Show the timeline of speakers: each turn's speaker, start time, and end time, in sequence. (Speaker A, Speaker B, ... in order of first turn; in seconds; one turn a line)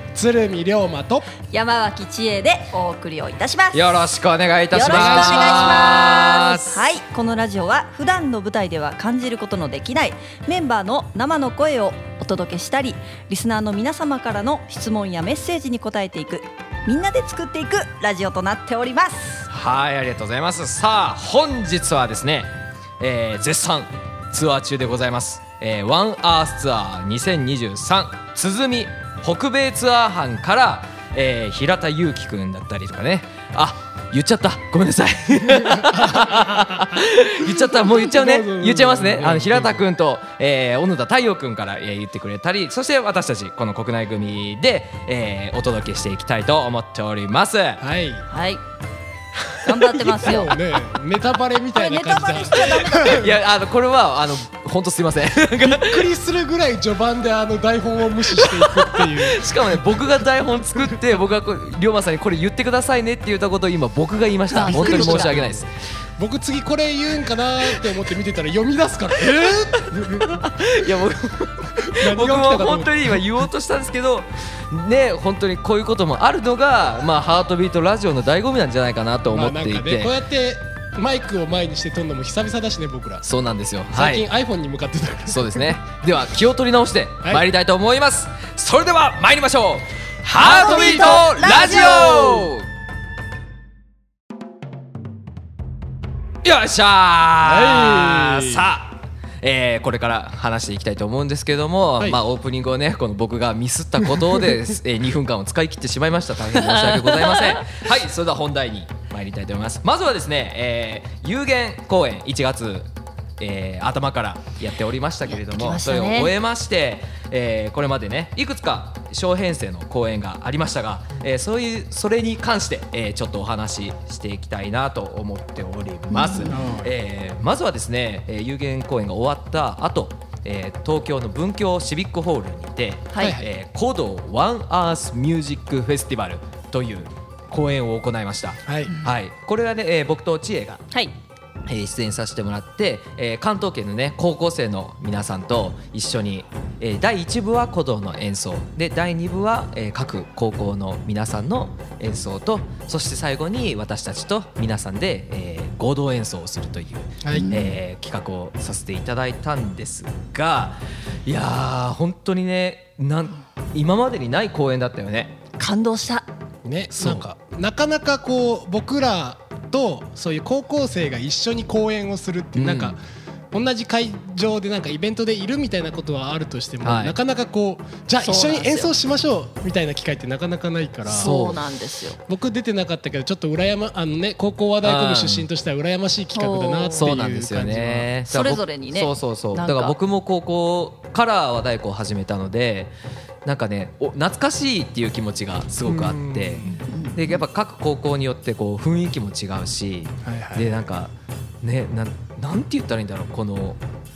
Speaker A: 0.1-1.3
Speaker B: 1.5-4.0
Speaker C: 3.7-6.8
Speaker B: 4.7-19.5
Speaker A: 4.8-5.9
Speaker C: 19.5-47.8
Speaker A: 35.8-37.0
Speaker A: 37.8-39.9
Speaker A: 47.8-48.3
Speaker B: 48.3-48.6
Speaker B: 49.6-50.5
Speaker A: 50.1-53.3
Speaker B: 51.7-53.2
Speaker C: 53.0-56.1
Speaker A: 55.6-59.5
Speaker C: 58.4-65.7
Speaker B: 64.5-65.3
Speaker A: 64.7-70.4
Speaker C: 69.1-80.2
Speaker A: 71.8-73.4
Speaker A: 79.3-83.3
Speaker C: 83.2-84.3
Speaker A: 83.9-85.7
Speaker C: 85.3-92.7
Speaker B: 90.3-92.5
Speaker A: 90.5-91.7
Speaker C: 96.4-140.8
Speaker A: 97.4-98.6
Speaker B: 106.6-107.7
Speaker B: 115.3-116.3
Speaker B: 126.1-126.6
Speaker A: 126.5-126.9
Speaker B: 133.1-133.4
Speaker A: 133.2-133.5
Speaker A: 138.7-138.9
Speaker C: 141.7-165.4
Speaker A: 157.2-157.7
Speaker B: 157.3-157.7
Speaker B: 165.6-166.3
Speaker A: 166.6-181.3
Speaker C: 166.9-167.2
Speaker C: 172.5-173.0
Speaker C: 176.8-177.2
Speaker B: 178.2-178.9
Speaker C: 181.1-181.6
Speaker B: 181.2-182.2
Speaker A: 182.2-188.1
Speaker C: 184.8-185.5
Speaker B: 186.3-187.1
Speaker C: 186.9-192.9
Speaker B: 188.3-190.0
Speaker C: 193.4-203.8
Speaker A: 195.9-196.8
Speaker B: 196.6-197.4
Speaker A: 200.2-200.8